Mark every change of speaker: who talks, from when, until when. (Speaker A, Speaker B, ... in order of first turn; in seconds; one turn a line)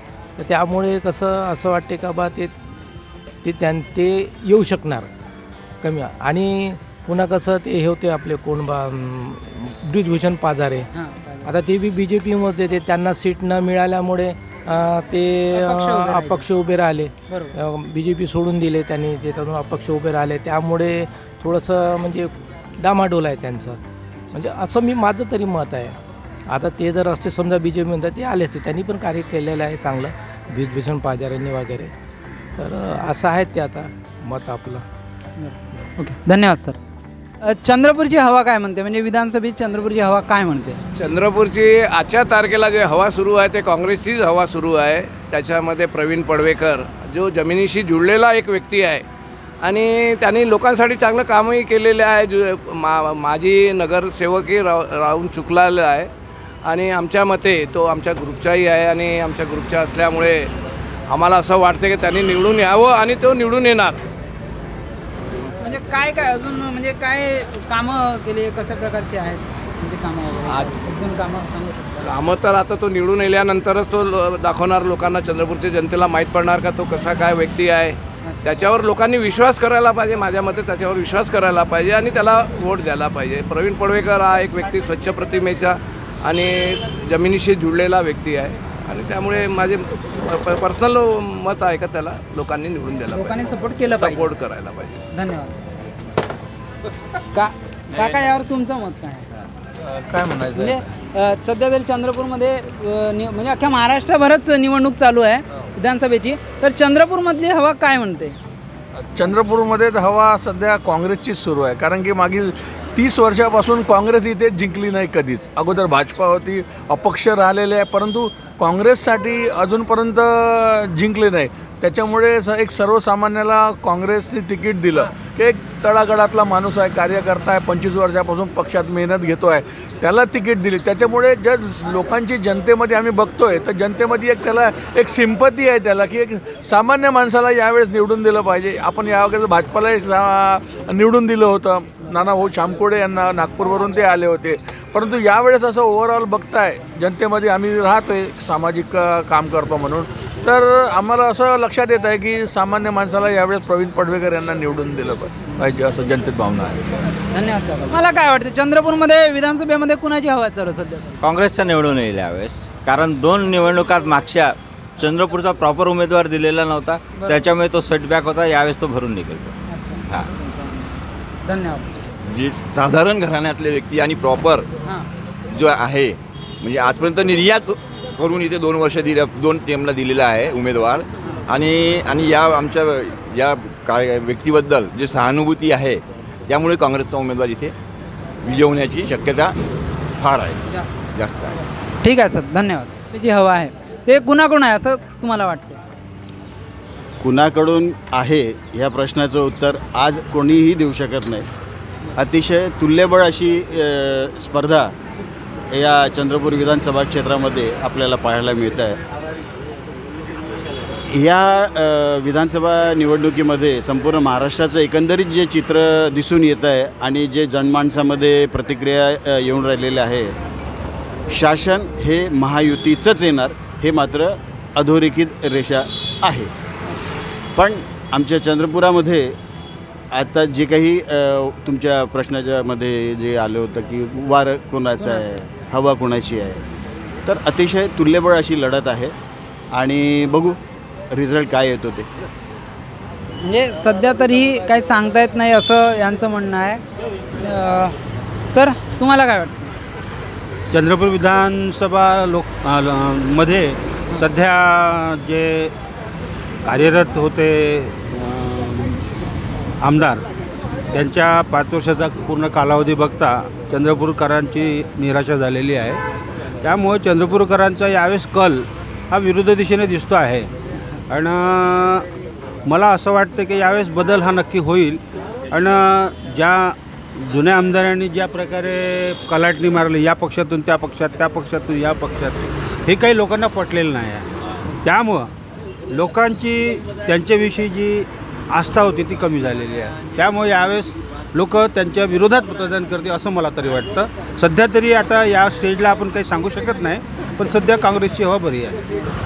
Speaker A: 0.4-2.5
Speaker A: 3.4-5.1
Speaker A: 5.8-10.9
Speaker B: 10.9-11.5
Speaker A: 11.4-23.8
Speaker B: 15.5-16.5
Speaker B: 17.3-17.6
Speaker A: 24.3-26.0
Speaker A: 26.5-31.9
Speaker A: 32.6-34.9
Speaker B: 35.4-36.8
Speaker B: 37.4-40.8
Speaker C: 41.0-49.0
Speaker C: 49.6-56.1
Speaker C: 56.6-60.5
Speaker C: 61.1-64.0
Speaker B: 65.6-72.1
Speaker C: 70.5-70.8
Speaker C: 72.0-95.0
Speaker B: 93.1-94.3
Speaker B: 95.1-95.6
Speaker B: 97.3-99.3
Speaker D: 99.8-100.7
Speaker B: 100.5-108.4
Speaker D: 109.0-157.0
Speaker B: 157.3-161.2
Speaker E: 161.2-169.5
Speaker B: 167.2-167.4
Speaker B: 169.7-170.8
Speaker B: 171.4-171.9
Speaker F: 172.3-174.7
Speaker F: 175.5-187.7
Speaker F: 188.4-189.6
Speaker F: 190.2-190.6
Speaker F: 191.1-191.6
Speaker B: 192.0-195.8
Speaker G: 197.2-201.5
Speaker G: 202.2-204.9
Speaker G: 205.7-209.0
Speaker G: 211.1-220.3
Speaker G: 221.3-226.5
Speaker G: 227.6-229.4
Speaker G: 230.1-236.6
Speaker B: 235.0-235.3
Speaker G: 237.3-239.2
Speaker G: 239.7-240.6
Speaker G: 241.1-242.1
Speaker B: 243.4-246.8
Speaker B: 247.4-248.0
Speaker B: 248.5-249.8
Speaker H: 250.7-255.7
Speaker H: 256.7-259.0
Speaker H: 259.8-260.2
Speaker H: 260.9-266.0
Speaker H: 266.6-270.5
Speaker H: 271.1-272.1
Speaker H: 272.7-275.0
Speaker H: 275.5-284.3
Speaker H: 284.8-285.3
Speaker H: 285.9-298.8